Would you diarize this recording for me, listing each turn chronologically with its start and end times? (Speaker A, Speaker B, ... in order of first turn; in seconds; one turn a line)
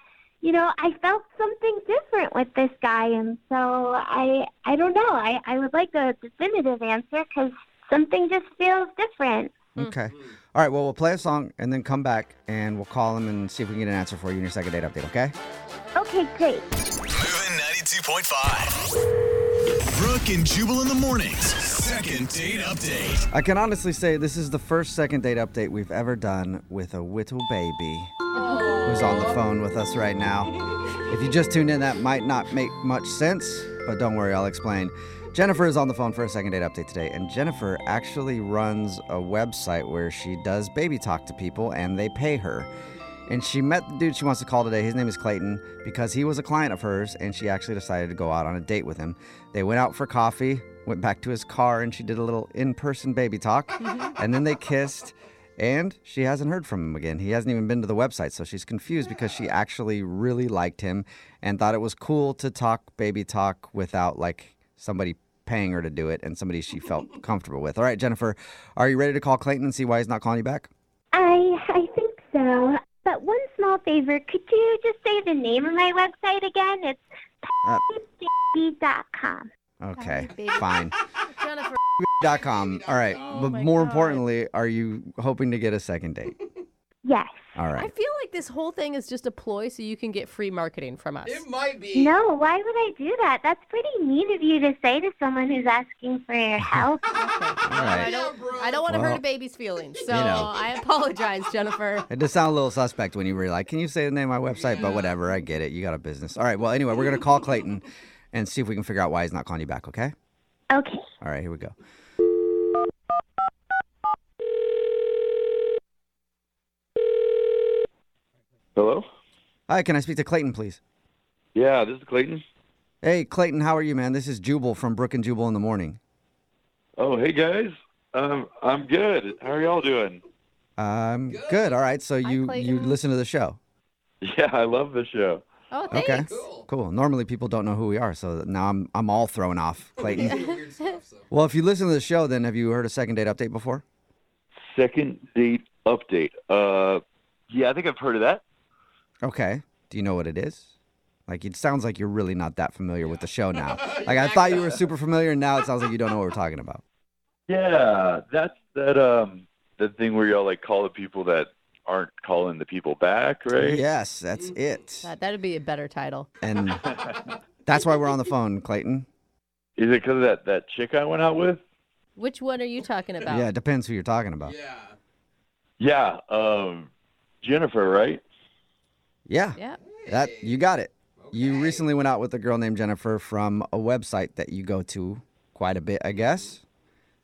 Speaker A: 0.4-9.6
Speaker B: 9.8-15.3
Speaker A: 16.0-16.7
Speaker C: 17.1-18.8
Speaker C: 19.9-23.2
Speaker B: 23.3-28.1
Speaker D: 28.4-29.3
Speaker E: 28.4-29.4
Speaker B: 28.8-30.5
Speaker E: 30.6-31.1
Speaker B: 31.1-42.7
Speaker B: 43.3-70.7
Speaker D: 53.8-54.1
Speaker E: 59.0-59.5
Speaker A: 71.1-79.5
Speaker B: 79.8-80.9
Speaker D: 80.0-80.8
Speaker D: 81.4-81.8
Speaker B: 82.0-86.3
Speaker E: 82.2-83.5
Speaker D: 83.1-84.3
Speaker E: 86.3-86.6
Speaker A: 87.0-87.3
Speaker B: 87.6-87.9
Speaker D: 87.8-91.5
Speaker E: 91.2-92.2
Speaker A: 92.0-97.1
Speaker B: 96.6-96.9
Speaker D: 97.1-102.1
Speaker B: 97.6-98.1
Speaker E: 97.7-99.2
Speaker B: 98.9-99.2
Speaker E: 99.8-100.9
Speaker B: 100.1-100.5
Speaker B: 102.1-110.1
Speaker E: 104.5-105.2
Speaker A: 110.7-111.0
Speaker B: 111.2-111.8
Speaker F: 118.8-119.0
Speaker B: 119.7-120.8
Speaker F: 121.5-122.4
Speaker B: 123.0-126.0
Speaker F: 127.0-130.2
Speaker E: 129.5-129.8
Speaker B: 130.8-133.6
Speaker E: 131.3-131.8
Speaker D: 132.2-133.0
Speaker F: 134.2-135.4
Speaker D: 135.7-136.5
Speaker E: 135.9-136.7
Speaker B: 135.9-140.4
Speaker E: 139.9-141.3
Speaker D: 140.1-141.0
Speaker B: 141.3-143.8
Speaker F: 144.7-148.4
Speaker B: 149.2-150.7
Speaker B: 151.3-156.8
Speaker E: 153.0-154.8
Speaker F: 157.5-163.8
Speaker B: 163.6-165.1
Speaker E: 164.3-164.7
Speaker D: 165.0-166.3
Speaker B: 166.4-166.8
Speaker E: 166.7-167.3
Speaker F: 166.8-167.2
Speaker B: 167.7-169.1
Speaker F: 169.8-171.6
Speaker D: 172.2-173.5
Speaker B: 173.3-174.5
Speaker E: 174.4-175.0
Speaker F: 175.8-176.9
Speaker F: 177.4-178.2
Speaker B: 179.3-186.6
Speaker E: 179.8-181.9
Speaker E: 186.2-186.5